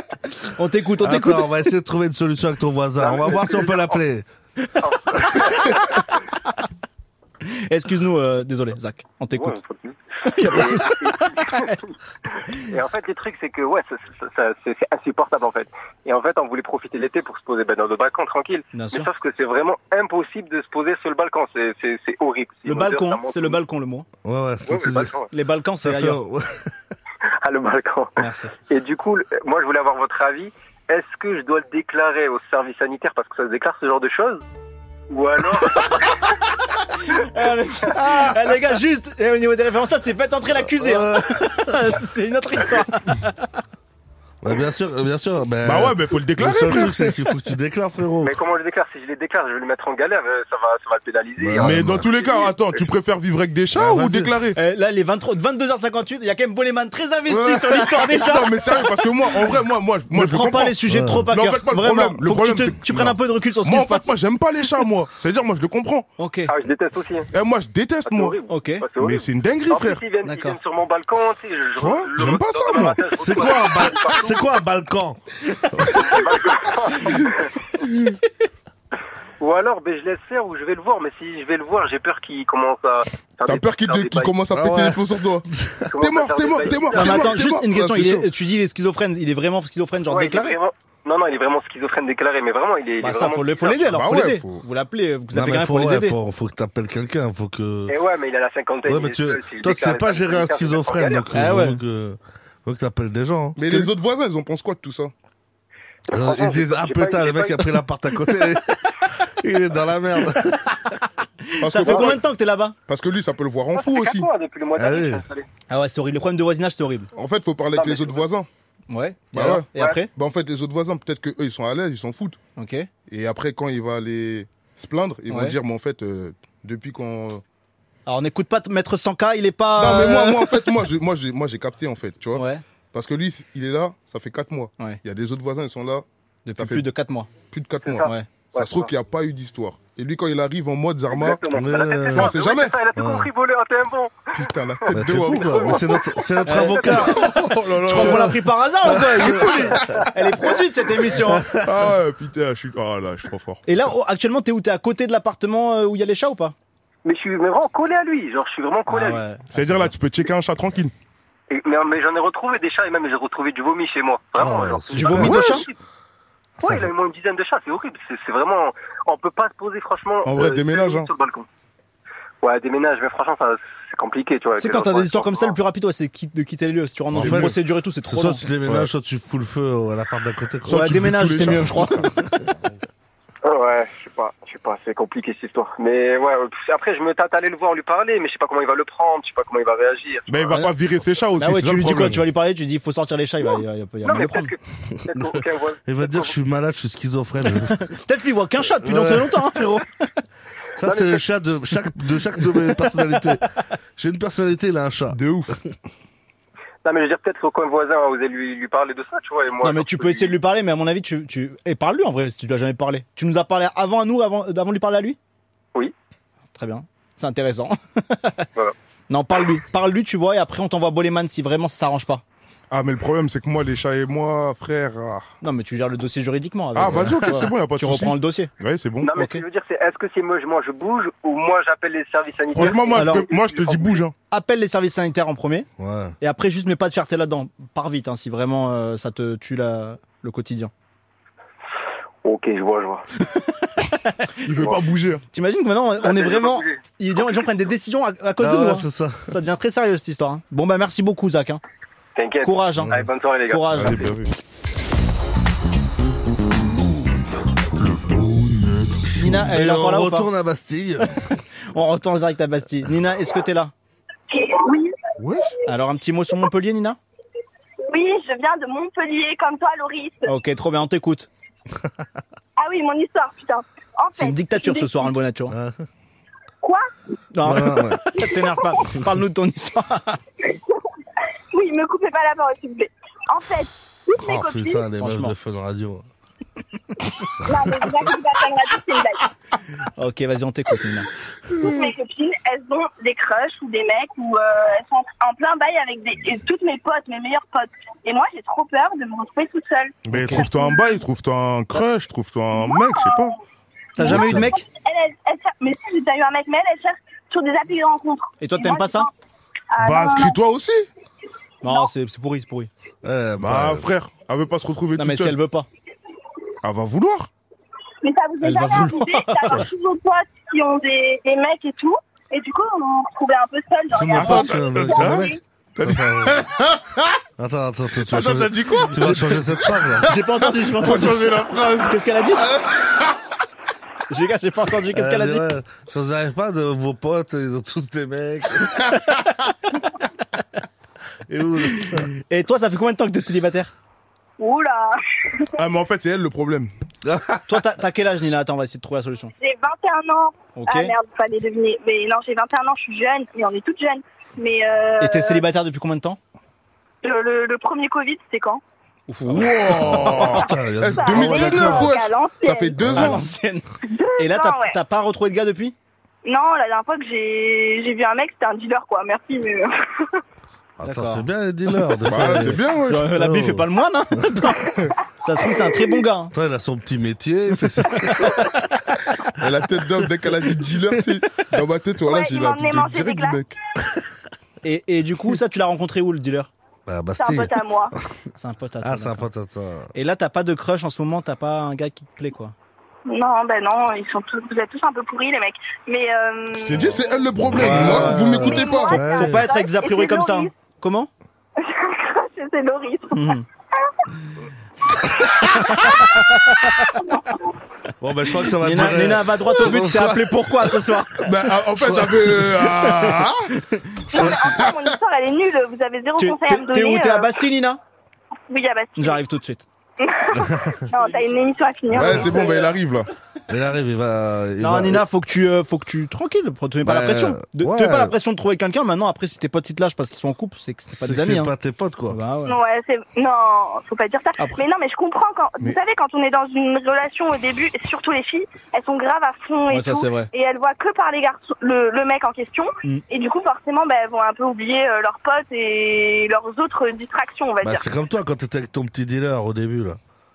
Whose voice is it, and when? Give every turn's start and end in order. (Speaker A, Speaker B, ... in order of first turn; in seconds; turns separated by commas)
Speaker A: 0.4-1.5, Speaker B: 1.0-4.3, Speaker C: 3.0-4.0, Speaker C: 4.8-6.1, Speaker A: 7.5-9.6, Speaker C: 9.3-11.8, Speaker A: 10.2-11.8, Speaker C: 12.6-23.6, Speaker A: 18.7-19.1, Speaker A: 22.7-24.1, Speaker B: 24.2-25.1, Speaker C: 24.7-25.3, Speaker A: 25.3-26.2, Speaker B: 25.8-26.7, Speaker C: 27.4-28.2, Speaker A: 28.2-28.5, Speaker C: 28.7-34.4, Speaker C: 35.1-36.2, Speaker A: 37.1-43.5, Speaker B: 40.8-41.8, Speaker B: 44.4-48.3, Speaker D: 45.6-47.1, Speaker C: 48.2-52.9, Speaker B: 51.4-52.1, Speaker D: 51.6-54.6, Speaker B: 53.8-54.3, Speaker A: 54.6-59.0, Speaker D: 57.3-66.1, Speaker A: 60.1-64.1, Speaker B: 60.9-61.3, Speaker A: 66.2-66.5, Speaker C: 66.5-67.3, Speaker D: 67.3-68.4, Speaker C: 68.1-74.5, Speaker A: 68.5-68.9, Speaker D: 69.0-70.0, Speaker A: 70.2-70.6, Speaker D: 71.8-73.1, Speaker B: 73.2-76.0, Speaker C: 76.1-77.5, Speaker C: 79.4-84.3, Speaker D: 83.5-88.3, Speaker B: 84.5-85.8, Speaker C: 85.9-87.3, Speaker A: 86.9-90.6, Speaker C: 90.1-93.8, Speaker A: 93.0-96.2, Speaker D: 93.9-94.6, Speaker B: 95.3-98.0, Speaker C: 97.9-101.3, Speaker B: 98.9-103.9, Speaker A: 101.3-101.8, Speaker D: 103.6-105.1, Speaker C: 106.1-107.7, Speaker B: 106.1-110.9, Speaker A: 111.5-112.8, Speaker D: 111.6-112.2, Speaker C: 111.8-112.1, Speaker D: 112.9-114.3, Speaker C: 113.7-115.5, Speaker B: 114.8-115.2, Speaker A: 115.7-117.1, Speaker D: 117.2-118.5, Speaker C: 117.8-118.2, Speaker A: 118.9-120.1, Speaker D: 119.3-122.4, Speaker A: 122.6-122.9, Speaker D: 123.1-127.4, Speaker A: 125.3-125.6, Speaker A: 128.1-130.5, Speaker D: 129.8-136.1, Speaker A: 132.3-132.6, Speaker A: 136.5-137.3, Speaker D: 136.6-136.9, Speaker D: 137.5-141.4, Speaker C: 137.8-138.9, Speaker C: 141.1-144.3, Speaker B: 141.6-142.4, Speaker D: 142.0-142.8, Speaker B: 143.0-143.3, Speaker D: 144.3-145.8, Speaker B: 144.9-149.9, Speaker C: 145.3-147.1, Speaker A: 146.5-147.2, Speaker D: 147.1-148.4, Speaker A: 147.8-151.5, Speaker B: 151.2-151.7, Speaker D: 151.6-153.6, Speaker A: 153.7-156.6, Speaker C: 157.1-159.2, Speaker A: 158.9-159.9, Speaker D: 159.5-160.9, Speaker C: 161.5-165.8, Speaker B: 164.4-165.4, Speaker A: 164.9-165.7, Speaker D: 165.2-165.6, Speaker C: 166.6-171.5, Speaker B: 166.6-166.9, Speaker D: 170.2-171.1, Speaker C: 172.4-175.6, Speaker A: 174.6-178.5, Speaker B: 177.2-181.6, Speaker D: 177.2-177.6, Speaker D: 180.7-182.1, Speaker A: 180.7-182.2, Speaker C: 183.4-190.5, Speaker D: 190.3-192.2, Speaker A: 191.4-194.5, Speaker C: 194.0-196.3, Speaker B: 195.9-197.8, Speaker A: 197.8-200.1, Speaker B: 198.8-199.8, Speaker B: 200.8-203.4, Speaker C: 200.8-201.2, Speaker B: 204.0-205.2, Speaker D: 205.1-205.6, Speaker C: 206.8-210.3, Speaker A: 209.6-215.2, Speaker A: 216.5-218.5, Speaker A: 219.1-222.2, Speaker D: 222.7-225.3, Speaker A: 225.4-228.5, Speaker D: 226.8-229.1, Speaker B: 226.9-227.4, Speaker C: 229.0-234.0, Speaker A: 229.1-229.4, Speaker D: 232.5-234.2, Speaker A: 232.9-233.3, Speaker A: 234.3-235.7, Speaker B: 235.8-236.2, Speaker A: 236.2-240.7, Speaker C: 242.2-243.0, Speaker D: 244.4-245.2, Speaker A: 245.3-251.6, Speaker C: 246.0-246.8, Speaker B: 248.4-249.3, Speaker C: 252.2-253.9, Speaker A: 252.4-252.9, Speaker A: 253.5-254.1, Speaker D: 253.7-254.3, Speaker A: 259.2-260.3, Speaker B: 259.2-261.2, Speaker A: 261.3-263.7, Speaker E: 264.3-264.9, Speaker D: 265.2-265.5, Speaker A: 265.7-267.0, Speaker E: 267.9-270.3, Speaker A: 270.3-271.3, Speaker E: 272.6-275.1, Speaker A: 274.1-275.6, Speaker B: 275.5-275.9, Speaker E: 276.6-276.9, Speaker A: 277.3-280.2, Speaker B: 277.4-278.1, Speaker E: 281.5-284.9, Speaker B: 284.2-286.1, Speaker A: 285.0-285.4, Speaker E: 287.4-289.3, Speaker A: 290.0-291.1, Speaker E: 291.6-301.0, Speaker D: 300.1-303.4, Speaker A: 300.1-300.4, Speaker E: 302.7-303.2, Speaker A: 304.0-304.6, Speaker E: 304.0-309.1, Speaker B: 304.1-304.4, Speaker A: 308.4-309.1, Speaker E: 309.7-310.4, Speaker D: 309.8-310.9, Speaker A: 311.6-312.7, Speaker B: 313.0-313.9, Speaker D: 313.4-315.4, Speaker A: 315.0-315.7, Speaker D: 316.6-317.3, Speaker E: 318.0-325.4, Speaker A: 318.4-319.6, Speaker B: 323.9-326.4, Speaker D: 324.1-327.1, Speaker B: 327.4-330.1, Speaker D: 328.1-330.1, Speaker A: 330.1-332.5, Speaker D: 330.6-332.0, Speaker A: 334.1-335.5, Speaker B: 334.9-338.9, Speaker B: 341.3-342.1, Speaker A: 342.3-343.7, Speaker E: 344.4-345.5, Speaker D: 345.6-346.7, Speaker B: 347.1-347.4, Speaker A: 347.5-349.3, Speaker E: 349.4-355.4, Speaker A: 350.6-350.9, Speaker A: 355.0-356.2, Speaker E: 357.0-358.6, Speaker A: 359.1-360.3, Speaker D: 359.3-363.2, Speaker B: 360.1-361.9, Speaker E: 361.0-362.8, Speaker B: 362.8-363.1, Speaker A: 362.9-363.6, Speaker E: 363.9-364.8, Speaker A: 364.2-365.8, Speaker E: 366.3-370.2, Speaker B: 370.8-373.7, Speaker A: 370.8-371.3, Speaker D: 372.1-373.1, Speaker A: 372.1-376.3, Speaker B: 376.3-378.3, Speaker A: 378.0-378.4, Speaker D: 379.4-383.6, Speaker E: 382.1-383.4, Speaker A: 384.6-386.5, Speaker B: 386.9-387.6, Speaker E: 387.2-387.9, Speaker A: 388.4-389.3, Speaker B: 388.8-389.9, Speaker A: 389.9-392.5, Speaker E: 393.1-397.1, Speaker D: 396.5-399.0, Speaker B: 396.9-399.5, Speaker A: 397.6-398.5, Speaker E: 398.4-400.5, Speaker A: 399.0-401.1, Speaker E: 401.6-403.4, Speaker A: 403.1-403.4, Speaker A: 405.4-407.0, Speaker E: 407.0-407.4, Speaker B: 408.0-410.8, Speaker A: 408.6-411.2, Speaker D: 411.2-413.5, Speaker B: 411.8-412.2, Speaker A: 412.8-414.0, Speaker E: 414.1-417.3, Speaker A: 416.2-417.8, Speaker E: 418.5-419.2, Speaker A: 419.0-419.6, Speaker E: 420.0-422.7, Speaker B: 420.4-420.8, Speaker D: 421.9-423.1, Speaker B: 422.0-422.3, Speaker B: 423.5-425.1, Speaker A: 424.6-431.5, Speaker B: 426.8-428.2, Speaker B: 430.9-432.2, Speaker A: 432.1-432.6, Speaker E: 432.5-447.9, Speaker A: 439.7-440.3, Speaker B: 447.6-450.0